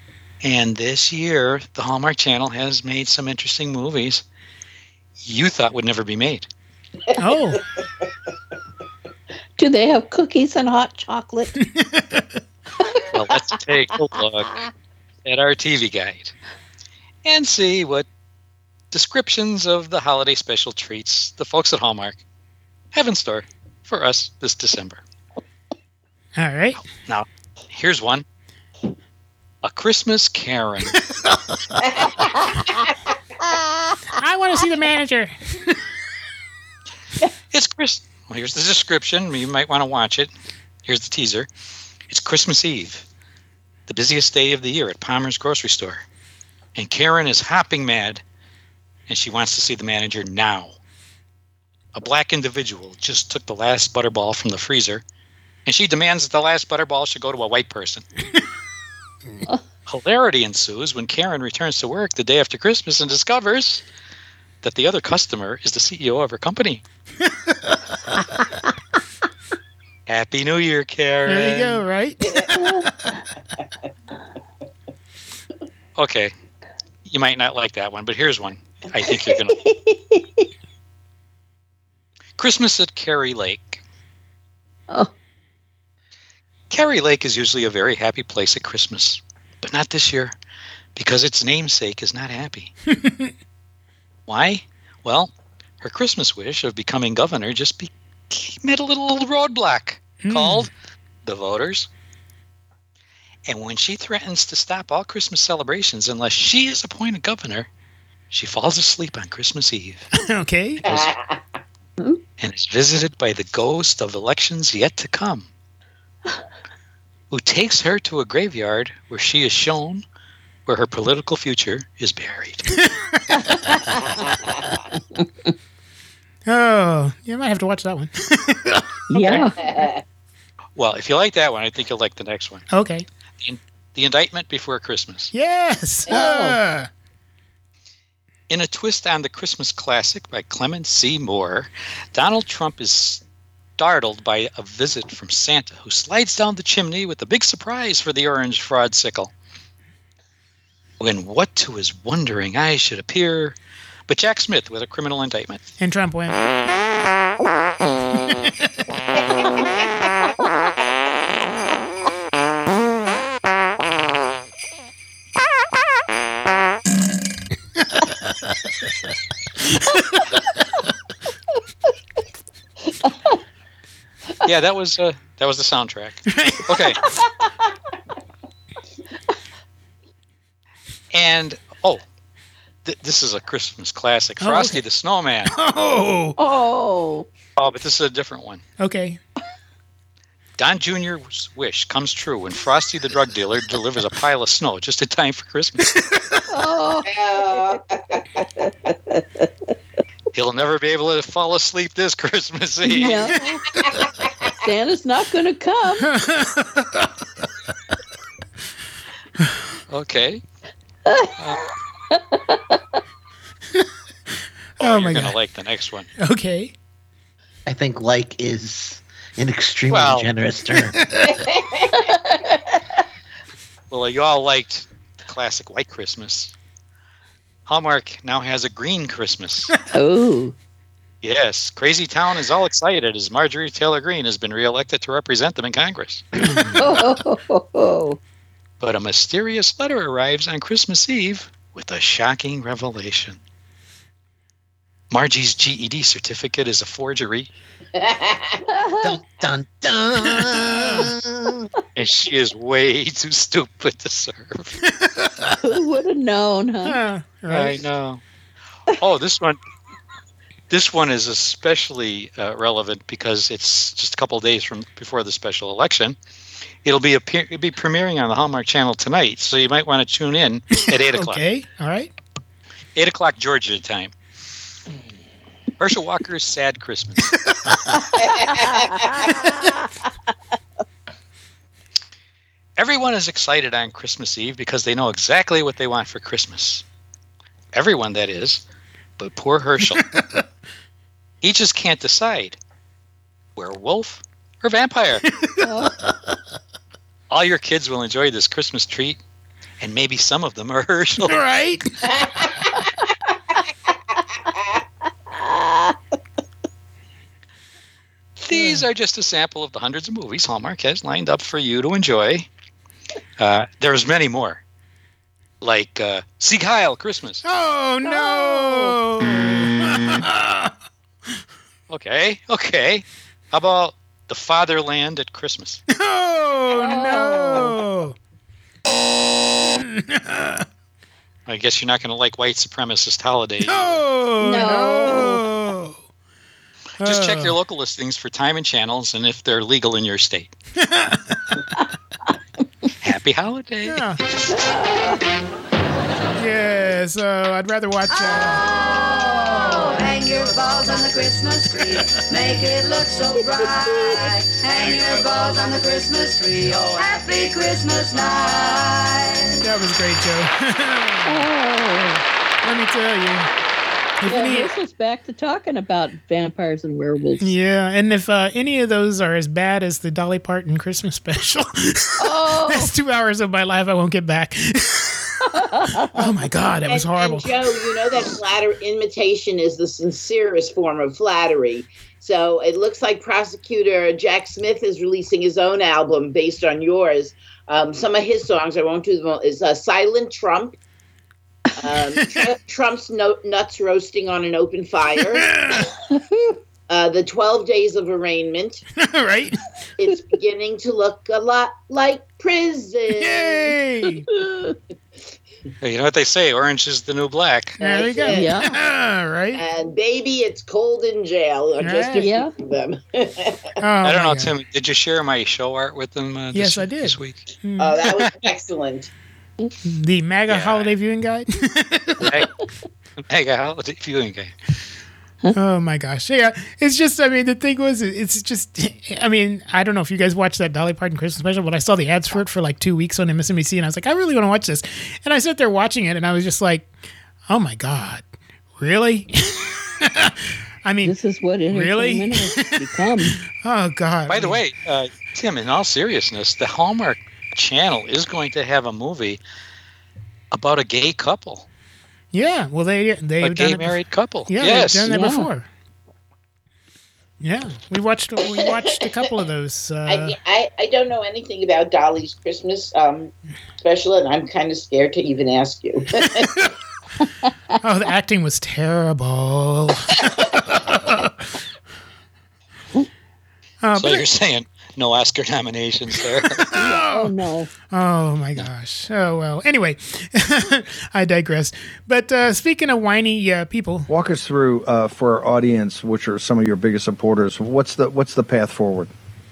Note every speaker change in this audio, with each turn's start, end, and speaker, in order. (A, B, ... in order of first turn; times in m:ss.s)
0:00.4-0:04.2 A
0:05.2-0:06.5 A
0:07.2-0:07.6 B
0:09.6-0:11.5 C
0:11.6-0:12.3 B
0:13.1-0:14.5 A
0:15.2-0:16.3 A
0:17.2-0:18.1 A
0:18.9-0:22.2 A
0:22.9-0:25.0 A
0:26.4-0:26.8 B
0:27.0-0:28.2 A
0:29.6-0:31.0 A
0:31.9-0:32.9 D
0:34.2-0:35.7 B
0:37.5-0:40.3 A
0:40.8-0:41.5 A
0:42.1-0:43.1 A
0:43.9-0:46.0 A
0:46.8-0:48.2 A
0:49.1-0:50.8 A
0:52.0-0:55.0 A
0:55.7-0:58.1 A
0:59.9-1:03.8 A
1:04.6-1:06.8 A
1:10.1-1:11.8 A
1:11.3-1:12.4 B
1:16.0-1:16.3 A
1:17.1-1:19.6 A
1:19.6-1:20.4 C
1:22.4-1:23.8 A
1:26.7-1:30.3 A
1:31.0-1:32.7 A
1:32.9-1:33.3 B
1:34.3-1:40.7 A
1:40.2-1:40.7 B
1:41.2-1:41.9 A
1:43.5-1:47.7 A
1:48.3-1:50.1 A
1:50.3-1:50.9 B
1:50.9-1:51.4 D
1:52.4-1:55.5 A
1:57.3-2:00.0 A
2:00.7-2:02.6 A
2:03.4-2:03.8 C
2:04.2-2:04.6 D
2:05.1-2:05.5 C
2:06.5-2:08.8 B
2:09.1-2:09.6 C
2:09.6-2:10.0 D
2:10.8-2:12.7 A
2:12.7-2:13.0 B
2:13.4-2:15.3 A
2:15.3-2:16.9 B
2:16.1-2:16.6 C
2:18.5-2:23.2 A
2:23.8-2:29.3 A
2:31.0-2:33.6 A
2:34.1-2:35.6 A
2:35.8-2:36.4 B
2:53.0-2:53.3 C
2:54.4-2:57.0 A
3:01.1-3:02.0 A
3:02.8-3:05.5 A
3:04.4-3:04.8 B
3:05.5-3:06.4 B
3:06.4-3:07.3 C
3:07.6-3:08.6 A
3:08.8-3:09.2 B
3:10.6-3:15.8 A
3:16.1-3:16.4 B
3:16.5-3:17.6 C
3:17.1-3:18.4 D
3:19.1-3:19.5 C
3:20.3-3:23.4 A
3:22.9-3:23.6 C
3:24.6-3:26.1 C
3:26.0-3:27.0 B
3:29.9-3:30.4 A
3:31.1-3:31.5 C
3:32.1-3:32.8 C
3:34.8-3:35.4 B
3:34.8-3:36.1 A
3:36.2-3:36.7 B
3:37.7-3:41.0 E
3:39.9-3:40.3 A
3:41.3-3:41.9 D
3:41.9-3:42.8 C
3:43.9-3:46.5 A
3:47.7-3:49.7 A
3:49.9-3:50.6 C
3:51.2-3:56.8 A
3:56.6-3:58.2 C
3:58.8-4:03.4 A
4:05.1-4:07.5 A
4:08.0-4:08.6 D
4:08.7-4:09.1 C
4:09.0-4:11.7 E
4:10.6-4:11.1 B
4:12.0-4:14.7 A
4:15.0-4:15.5 B
4:15.6-4:17.0 C
4:16.8-4:17.9 B
4:17.5-4:18.2 A
4:19.0-4:19.6 A
4:20.7-4:26.2 A
4:26.8-4:31.4 A
4:31.0-4:32.1 B
4:33.0-4:34.1 A
4:35.8-4:37.3 A
4:38.2-4:39.5 D
4:38.5-4:39.7 C
4:42.8-4:46.8 A
4:47.7-4:48.6 A
4:49.2-4:50.1 A
4:51.4-4:52.6 A
4:53.6-4:55.2 A
4:55.6-4:55.9 C
4:57.3-4:59.2 A
4:59.8-5:01.4 A
5:01.2-5:01.9 B
5:02.2-5:02.5 D
5:04.5-5:04.8 D
5:08.4-5:12.5 A
5:08.5-5:08.8 B
5:13.4-5:14.6 A
5:15.6-5:17.4 A
5:17.4-5:20.7 B
5:18.0-5:19.0 C
5:21.9-5:25.8 A
5:25.9-5:28.2 B
5:26.7-5:27.7 C
5:29.7-5:30.6 B
5:31.5-5:34.0 A
5:33.7-5:36.0 B
5:34.4-5:35.4 C
5:37.0-5:37.6 B
5:37.0-5:40.5 A
5:40.8-5:41.6 B
5:43.0-5:44.0 A
5:43.9-5:44.2 B
5:44.5-5:45.2 C
5:46.4-5:48.6 B
5:48.1-5:59.6 F
5:59.6-6:01.4 B
6:01.3-6:02.2 C
6:02.6-6:03.5 B
6:04.2-6:04.7 B
6:04.3-6:07.5 C
6:07.4-6:15.4 B
6:12.2-6:12.9 C
6:15.7-6:16.1 C
6:16.2-6:17.5 B
6:16.9-6:30.8 D
6:31.8-6:35.5 D
6:35.4-6:35.9 B
6:36.1-6:36.6 C
6:36.9-6:38.8 D
6:39.0-6:39.6 B
6:40.0-6:43.7 D
6:43.2-6:44.2 B
6:44.3-6:44.8 C
6:45.8-6:47.8 A
6:47.8-6:48.6 D
6:47.8-6:49.6 B
6:48.3-6:48.7 C
6:49.6-6:53.7 D
6:51.8-6:52.3 B
6:52.2-6:52.5 C
6:53.8-6:54.5 B
6:54.0-6:57.4 A
6:56.5-6:58.2 B
6:57.8-6:59.1 D
6:59.9-7:02.2 B
7:00.5-7:00.9 A
7:02.2-7:02.5 A
7:03.3-7:04.5 A
7:05.5-7:16.9 B
7:17.5-7:18.2 B
7:18.8-7:20.3 B
7:20.8-7:21.2 B
7:21.0-7:23.4 C
7:21.7-7:22.6 B
7:23.5-7:24.6 B
7:24.3-7:29.4 A
7:30.5-7:31.7 A
7:32.3-7:34.0 B
7:33.4-7:35.1 A
7:34.5-7:35.7 B
7:35.1-7:35.5 C
7:37.4-7:40.4 B
7:38.4-7:39.2 D
7:40.1-7:46.7 D
7:47.8-7:51.3 B
7:53.8-7:54.2 B
7:54.0-7:56.7 A
7:56.7-7:57.7 C
7:56.7-7:57.3 B
7:57.9-8:04.1 B
8:04.1-8:09.1 G